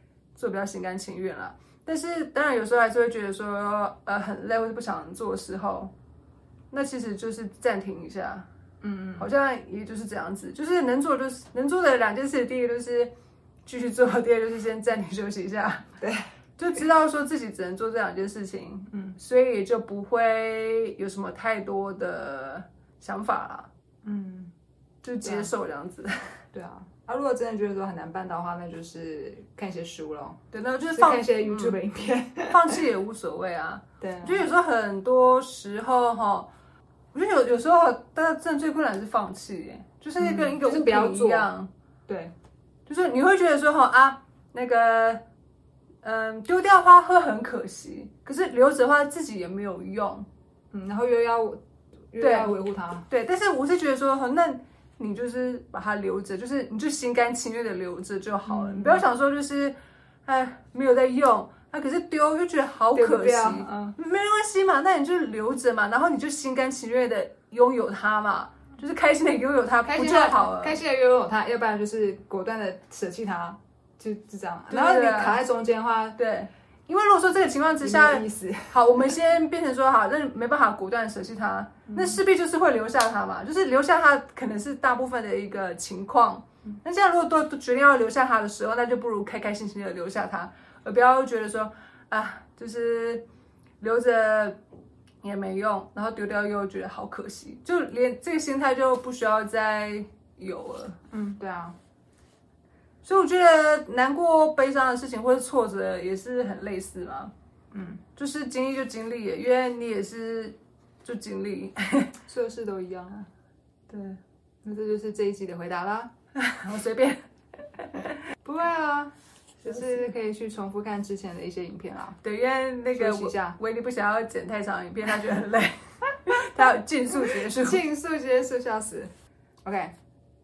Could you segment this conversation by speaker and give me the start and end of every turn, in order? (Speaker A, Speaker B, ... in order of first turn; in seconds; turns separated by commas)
Speaker A: 0.3-5.9, Speaker A: 6.7-8.5, Speaker B: 8.8-9.3, Speaker A: 9.2-13.1, Speaker A: 13.7-15.9, Speaker B: 16.0-16.3, Speaker A: 16.6-23.7, Speaker B: 18.9-19.2, Speaker B: 24.0-24.5, Speaker A: 25.0-26.4, Speaker B: 25.2-25.5, Speaker B: 26.5-30.4, Speaker A: 30.5-31.8, Speaker B: 30.9-32.8, Speaker A: 32.5-36.5, Speaker B: 34.0-34.5, Speaker A: 37.1-41.7, Speaker B: 40.2-41.5, Speaker B: 42.1-42.3, Speaker A: 42.9-45.2, Speaker A: 46.0-50.3, Speaker B: 50.7-53.1, Speaker A: 52.2-52.5, Speaker A: 53.1-70.8, Speaker B: 58.5-59.0, Speaker B: 62.9-64.0, Speaker B: 69.8-76.2, Speaker A: 74.7-75.4, Speaker A: 76.2-93.2, Speaker B: 77.8-79.1, Speaker B: 81.9-82.2, Speaker A: 93.8-94.6, Speaker A: 95.2-101.0, Speaker B: 101.1-101.8, Speaker A: 103.0-107.3, Speaker B: 107.7-108.0, Speaker A: 108.2-112.2, Speaker B: 112.2-113.3, Speaker A: 113.9-114.2, Speaker B: 114.6-116.1, Speaker A: 116.4-117.2, Speaker A: 117.7-118.1, Speaker B: 118.4-119.1, Speaker A: 119.6-120.0, Speaker B: 119.6-122.2, Speaker A: 122.2-127.8, Speaker B: 122.9-123.6, Speaker B: 127.3-129.1, Speaker B: 129.6-129.9